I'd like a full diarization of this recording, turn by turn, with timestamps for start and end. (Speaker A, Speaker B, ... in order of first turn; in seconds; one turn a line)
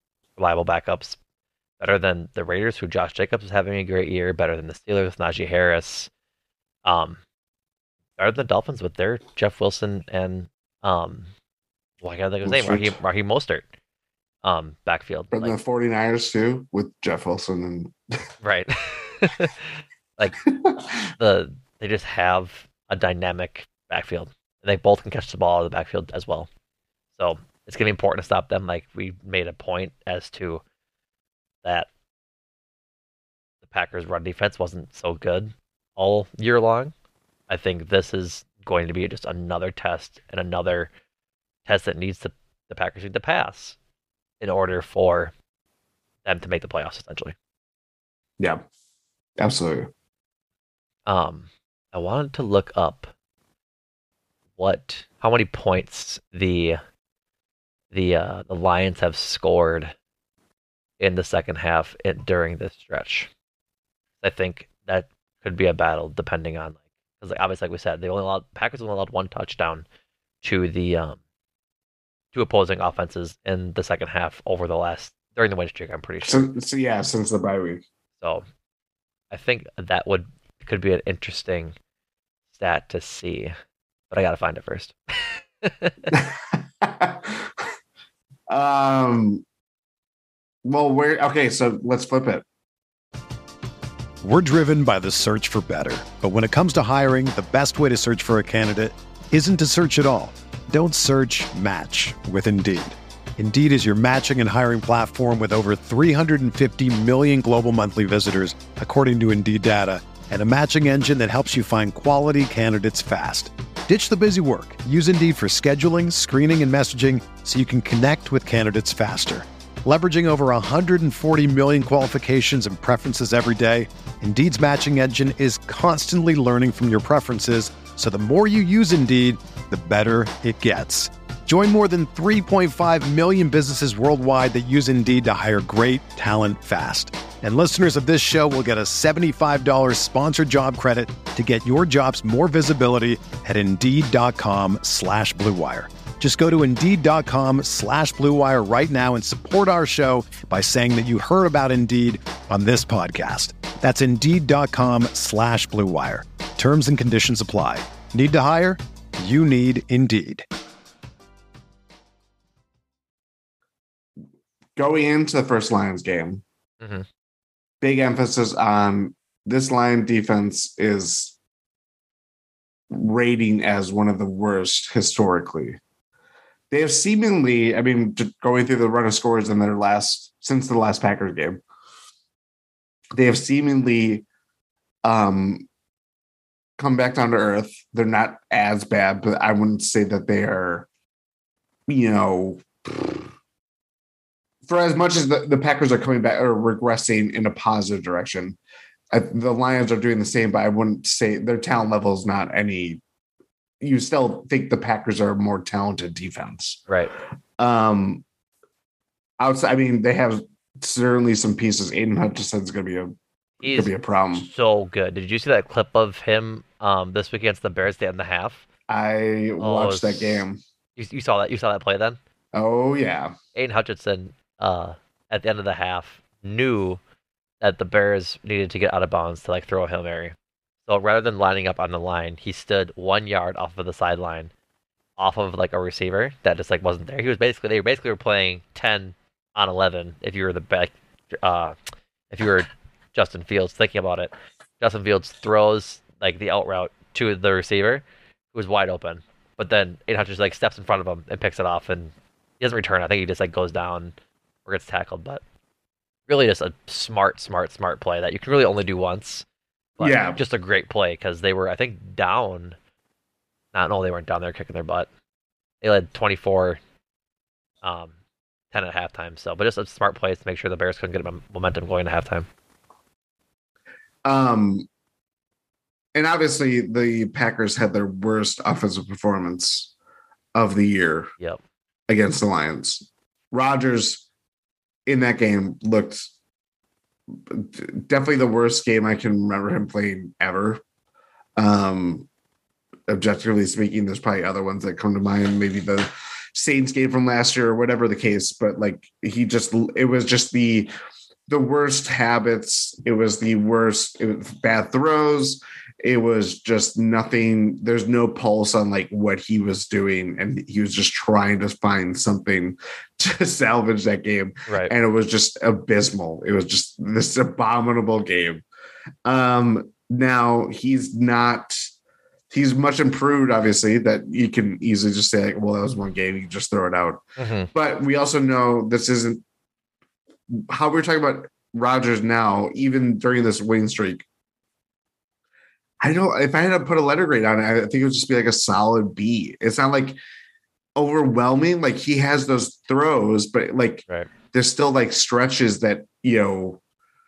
Speaker A: 0.4-1.2
Speaker A: 1.8-6.1
Speaker A: 6.8-7.2
Speaker A: 8.2-11.3
Speaker A: 12.0-13.7
Speaker B: 12.4-13.0
Speaker A: 14.4-15.5
Speaker B: 15.3-17.9
Speaker A: 18.4-19.7
Speaker A: 21.2-26.5
Speaker A: 27.2-30.6
Speaker A: 31.6-31.9
Speaker A: 33.6-36.9
Speaker A: 37.5-40.9
Speaker A: 41.7-43.8
Speaker A: 44.4-45.3
Speaker A: 46.2-47.4
Speaker B: 49.4-49.9
Speaker A: 51.1-53.1
Speaker A: 54.6-56.8
Speaker A: 57.9-59.9
Speaker A: 61.0-63.3
Speaker A: 64.2-69.8
Speaker A: 70.4-71.2
Speaker A: 72.3-76.5
Speaker B: 76.2-77.8
Speaker A: 78.2-78.5
Speaker A: 79.3-81.8
Speaker A: 82.5-83.5
Speaker A: 84.1-86.1
Speaker B: 86.1-87.5
Speaker B: 88.5-89.4
Speaker B: 90.7-92.5
Speaker C: 94.2-160.5
Speaker B: 164.8-166.4
Speaker A: 166.8-167.1
Speaker B: 167.8-171.4
Speaker B: 172.9-175.8
Speaker B: 176.7-181.6
Speaker B: 183.2-184.2
Speaker B: 185.0-185.7
Speaker B: 186.8-190.9
Speaker B: 191.9-193.2
Speaker B: 194.7-198.6
Speaker B: 199.1-203.0
Speaker B: 203.8-206.8
Speaker B: 207.6-208.2
Speaker B: 209.4-214.5
Speaker A: 213.6-218.7
Speaker B: 218.9-220.6
Speaker A: 219.6-220.4
Speaker A: 221.0-222.2
Speaker B: 222.5-223.4
Speaker A: 223.6-227.0
Speaker A: 227.6-234.5
Speaker A: 235.2-241.8
Speaker A: 242.3-255.4
Speaker A: 256.3-259.5
Speaker A: 260.0-262.8
Speaker B: 260.0-260.4
Speaker A: 263.7-265.1
Speaker A: 265.8-266.8
Speaker A: 267.8-268.1
Speaker A: 268.7-272.5
Speaker B: 274.2-274.9
Speaker B: 276.1-279.9
Speaker B: 280.6-281.3
Speaker B: 282.1-284.2
Speaker B: 285.1-286.3
Speaker B: 287.4-290.8
Speaker B: 291.6-292.3
Speaker B: 293.1-300.9
Speaker B: 301.5-318.6
Speaker A: 314.7-314.9
Speaker B: 319.2-321.9
Speaker B: 322.5-327.2
Speaker A: 327.4-327.7
Speaker B: 327.7-329.4
Speaker B: 330.5-334.2
Speaker B: 336.0-340.2
Speaker B: 341.0-346.8